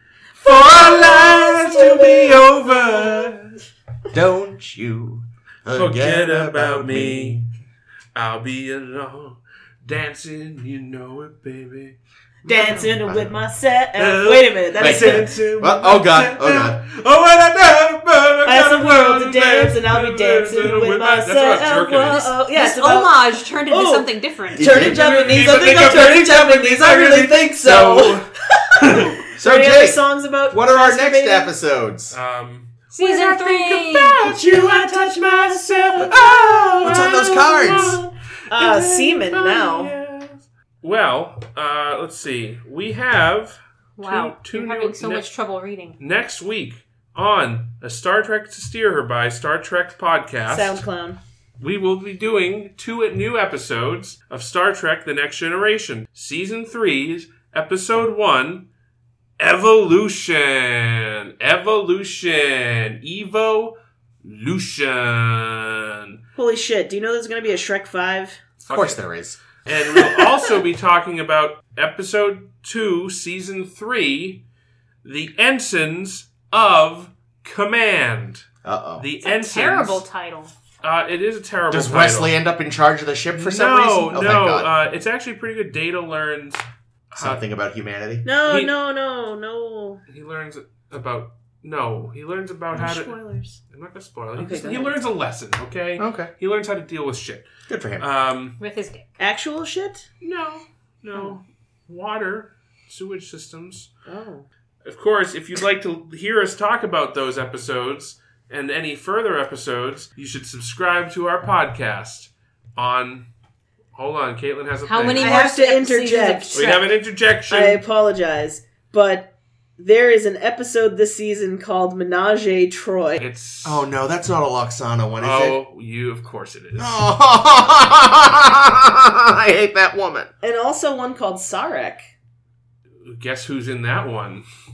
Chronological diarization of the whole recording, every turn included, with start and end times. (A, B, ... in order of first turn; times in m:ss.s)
0:00.4-0:03.6 A
0:00.4-0:03.3 B
0:04.1-0:07.4 C
0:05.7-0:07.4 A
0:08.1-0:12.9 A
0:12.4-0:15.4 B
0:13.0-0:13.3 C
0:14.0-0:22.3 A
0:14.8-0:16.8 C
0:18.4-0:31.5 B
0:22.0-0:24.7 D
0:24.5-0:25.0 C
0:24.6-0:29.2 A
0:29.4-0:32.2 C
0:32.1-0:45.3 A
0:32.9-0:34.4 D
0:34.2-0:37.2 B
0:36.8-0:38.0 C
0:38.5-0:39.9 B
0:44.0-0:46.0 D
0:46.0-0:50.8 A
0:50.5-0:51.2 B
0:51.6-0:58.7 A
0:59.4-1:06.2 A
1:06.4-1:08.4 B
1:08.6-1:09.0 A
1:08.7-1:09.4 C
1:09.6-1:14.4 A
1:15.0-1:18.5 A
1:18.6-1:19.0 C
1:19.0-1:20.0 A
1:19.2-1:20.5 D
1:20.8-1:22.3 A
1:21.7-1:24.7 C
1:23.3-1:27.4 A
1:27.2-1:28.2 C
1:28.2-1:30.0 B
1:28.4-1:28.7 A
1:30.1-1:38.6 A
1:32.7-1:33.6 B
1:34.3-1:35.0 B
1:36.0-1:36.3 C
1:37.7-1:38.1 C
1:38.6-1:39.1 D
1:39.2-1:40.1 B
1:40.2-1:43.9 A
1:44.0-1:44.5 B
1:44.8-1:53.3 A
1:53.9-1:55.3 A
1:54.8-1:56.9 D
1:55.1-1:56.7 B
1:56.5-1:57.8 A
1:57.5-2:03.2 B
2:03.2-2:03.9 A
2:03.6-2:05.6 C
2:05.2-2:07.1 A
2:06.8-2:10.3 C
2:10.4-2:12.1 B
2:13.0-2:14.4 A